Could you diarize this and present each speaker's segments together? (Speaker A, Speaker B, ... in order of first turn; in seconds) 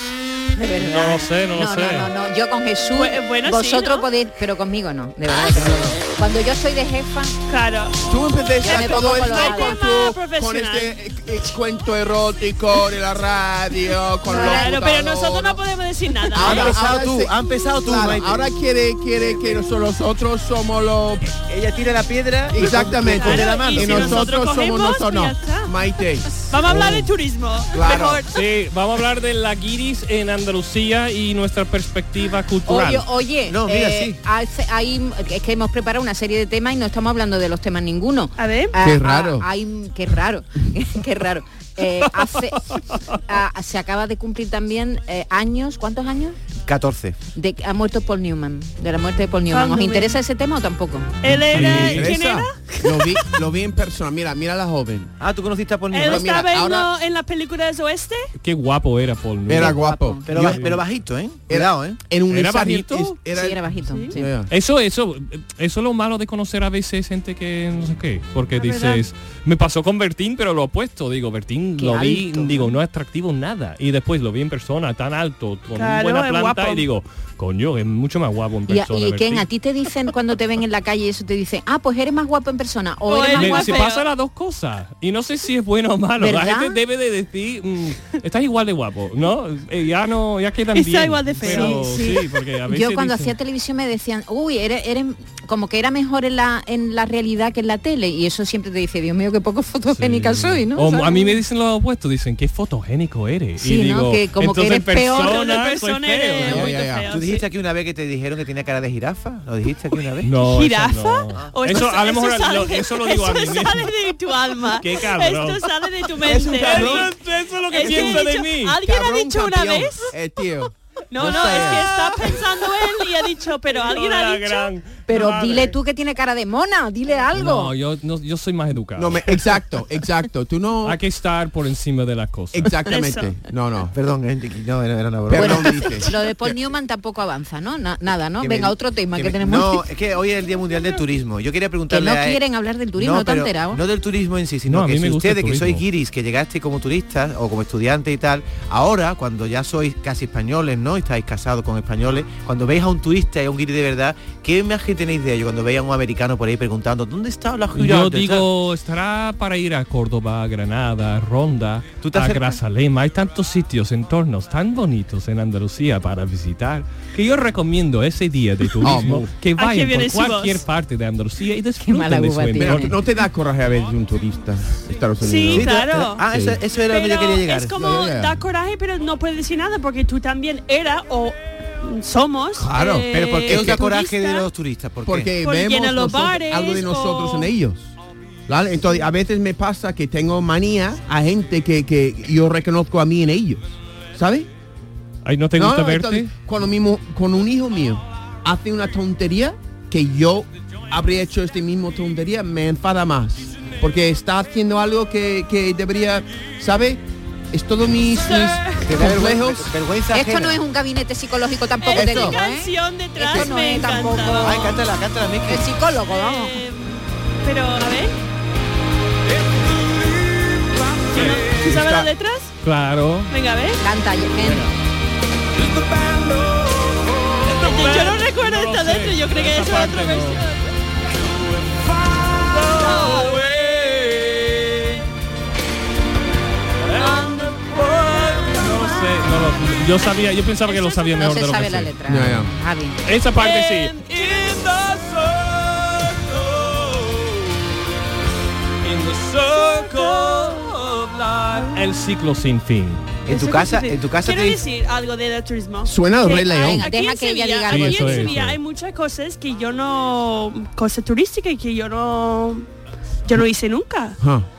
Speaker A: 0.6-7.4, 8.6-9.8, 14.2-14.9, 32.7-46.4, 47.3-51.2, 59.5-60.6, 63.3-64.3, 71.8-72.7, 78.7-83.8, 86.2-86.8, 91.4-101.4, 103.6-105.5, 125.1-127.7, 135.4-139.9, 141.9-143.8, 171.8-172.9, 210.1-214.8, 215.4-216.6, 223.8-224.7, 241.1-243.0, 256.3-258.4
Speaker B: 0.8-2.1, 28.3-33.0, 51.3-52.2, 58.4-60.8, 62.3-63.2, 64.5-79.5, 83.3-93.4, 99.9-106.7, 110.2-114.0, 114.7-118.8, 123.7-125.7, 127.3-129.4, 130.8-132.7, 144.7-145.8, 157.7-172.9, 195.2-196.3, 221.1-221.4, 222.6-223.3, 224.4-224.7, 227.4-230.4, 232.4-234.5, 236.9-241.9, 243.1-246.2, 248.8-253.2, 257.7-258.6
Speaker C: 2.9-4.1, 7.5-8.0, 9.2-11.0, 14.3-16.9, 23.1-25.8, 26.5-28.3, 38.4-38.8, 49.5-50.2, 51.2-53.3, 55.9-58.3, 63.9-64.1, 68.5-69.0, 75.7-76.9, 83.0-84.0, 90.7-92.2, 105.1-107.5, 110.4-117.1, 117.7-120.1, 121.1-124.7, 132.9-133.3, 169.6-170.6, 175.2-184.5, 185.4-187.5, 208.2-208.9, 211.8-214.8, 216.1-218.1, 221.1-222.5, 223.3-223.8, 227.5-230.6, 232.7-233.5, 237.0-237.6, 238.3-239.1, 240.7-241.1, 243.4-244.7, 249.6-250.3, 253.3-262.7, 263.3-264.2
Speaker D: 8.1-15.6, 16.2-17.3, 17.8-21.3, 22.5-27.1, 27.7-28.2, 38.8-39.5, 51.3-55.1, 56.0-56.9, 59.5-60.2, 61.5-64.5, 106.4-107.1, 116.2-117.2, 117.7-122.4, 129.0-131.0, 132.5-133.9, 135.3-136.1, 168.8-169.3, 172.6-176.6, 177.8-178.4, 182.6-183.8, 185.1-187.9, 188.5-194.5, 195.6-207.0, 207.5-209.7, 221.4-222.1, 242.1-242.5, 255.8-256.9, 264.2-264.4
Speaker E: 16.4-18.5, 21.4-24.3, 33.5-34.2, 46.6-47.2, 55.2-56.4, 60.3-62.0, 107.1-110.3, 133.9-135.9, 138.4-142.4, 143.0-158.5, 162.0-162.6, 175.5-177.7, 183.1-185.3, 208.8-210.6, 211.9-212.3, 214.4-215.7, 253.3-254.6